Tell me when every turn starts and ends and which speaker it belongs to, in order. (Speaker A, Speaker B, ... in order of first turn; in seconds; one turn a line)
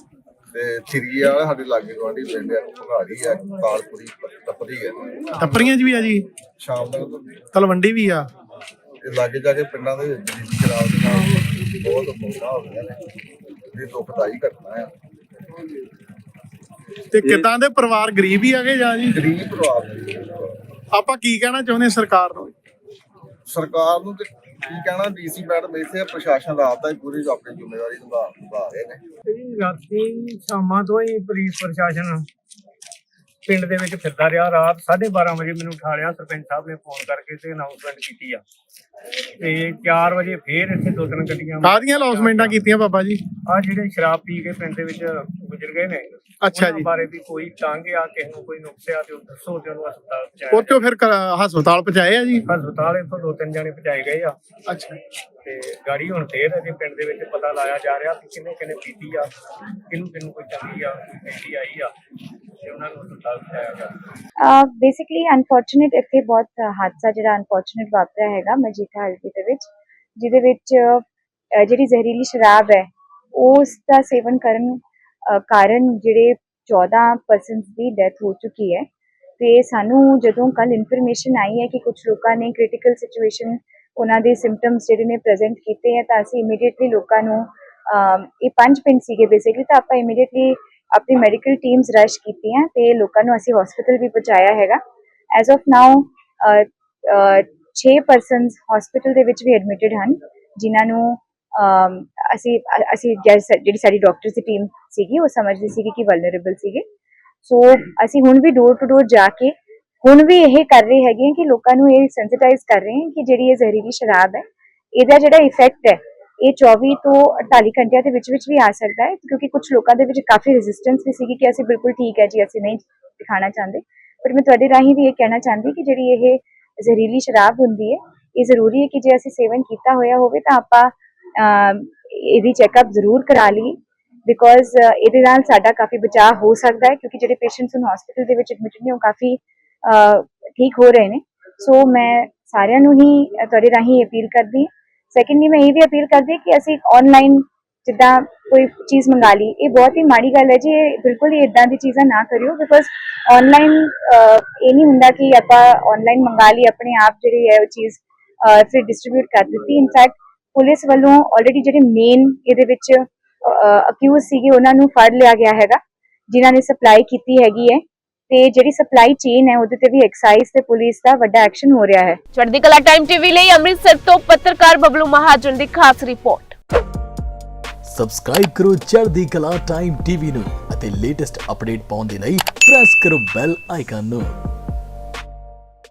Speaker A: 0.5-5.7
Speaker B: 5.4-6.3
Speaker A: 6.6-7.4
Speaker B: 7.5-8.3
Speaker A: 9.0-13.0
Speaker A: 13.7-14.9
Speaker B: 17.1-19.2
Speaker A: 19.1-20.4
Speaker B: 20.9-22.5
Speaker A: 23.5-29.0
Speaker C: 29.3-32.3
Speaker C: 33.5-38.4
Speaker C: 39.4-42.6
Speaker B: 41.6-43.2
Speaker C: 43.5-50.8
Speaker B: 46.4-46.9
Speaker B: 50.5-52.4
Speaker C: 52.5-54.4
Speaker B: 54.7-55.0
Speaker C: 55.5-59.3
Speaker C: 59.9-61.9
Speaker C: 62.6-63.9
Speaker D: 64.4-71.0
Speaker D: 71.5-78.9
Speaker D: 79.4-94.8
Speaker D: 95.3-106.8
Speaker D: 107.4-114.4
Speaker D: 115.0-165.8
Speaker D: 166.3-172.2
Speaker E: 172.3-176.6
Speaker F: 177.8-184.4